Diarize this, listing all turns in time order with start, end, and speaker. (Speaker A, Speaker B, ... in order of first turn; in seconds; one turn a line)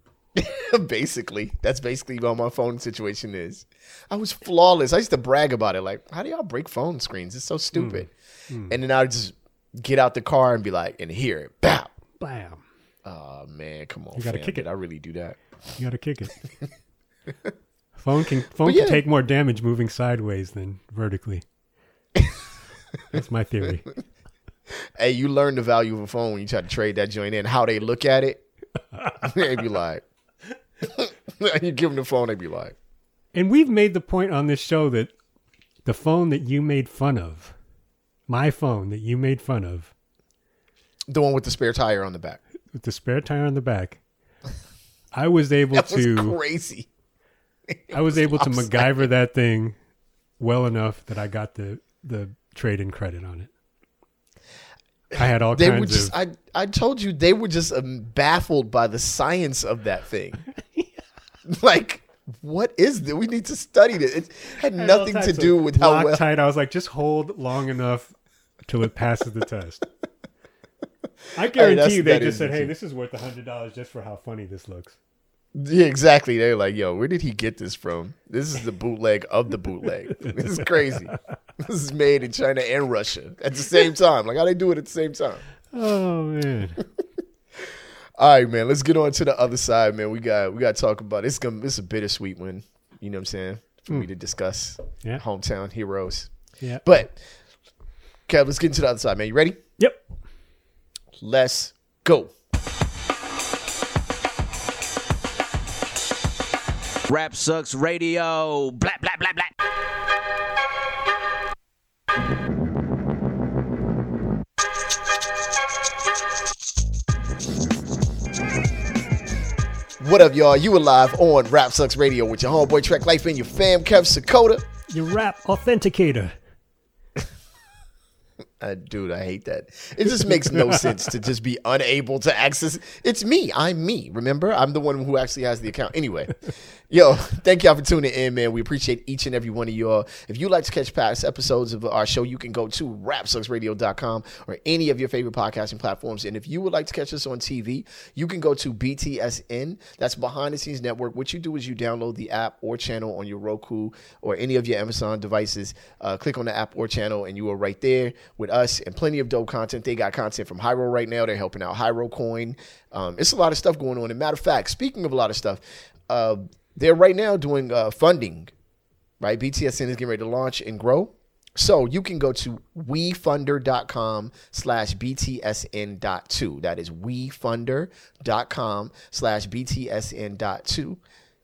Speaker A: 0.3-8.1
Speaker B: 7.8-8.8
Speaker A: 8.7-11.9
Speaker B: 12.2-12.6
Speaker A: 13.1-15.4
Speaker B: 14.2-14.7
Speaker B: 15.8-16.4
Speaker B: 18.0-21.4
Speaker A: 18.6-19.0
Speaker B: 23.1-23.9
Speaker A: 25.0-28.4
Speaker B: 29.0-29.3
Speaker A: 29.2-30.0
Speaker A: 30.8-32.8
Speaker B: 33.3-35.1
Speaker B: 35.9-37.5
Speaker B: 38.3-39.9
Speaker A: 41.1-42.4
Speaker B: 42.7-44.0
Speaker B: 45.1-46.4
Speaker A: 45.7-46.9
Speaker A: 47.7-49.0
Speaker B: 47.9-49.8
Speaker B: 50.4-53.5
Speaker B: 55.1-56.1
Speaker A: 55.2-60.4
Speaker A: 61.5-66.2
Speaker B: 64.8-68.1
Speaker B: 68.7-69.8
Speaker B: 71.4-75.0
Speaker A: 71.5-72.7
Speaker A: 75.5-85.4
Speaker B: 80.2-81.1
Speaker B: 85.7-86.8
Speaker A: 87.6-96.3
Speaker A: 96.8-97.2
Speaker A: 98.3-99.6
Speaker A: 101.2-102.3
Speaker C: 107.1-109.5
Speaker A: 120.0-124.7
Speaker B: 124.9-126.3
Speaker A: 128.6-168.5
Speaker B: 130.4-130.8
Speaker A: 169.2-181.0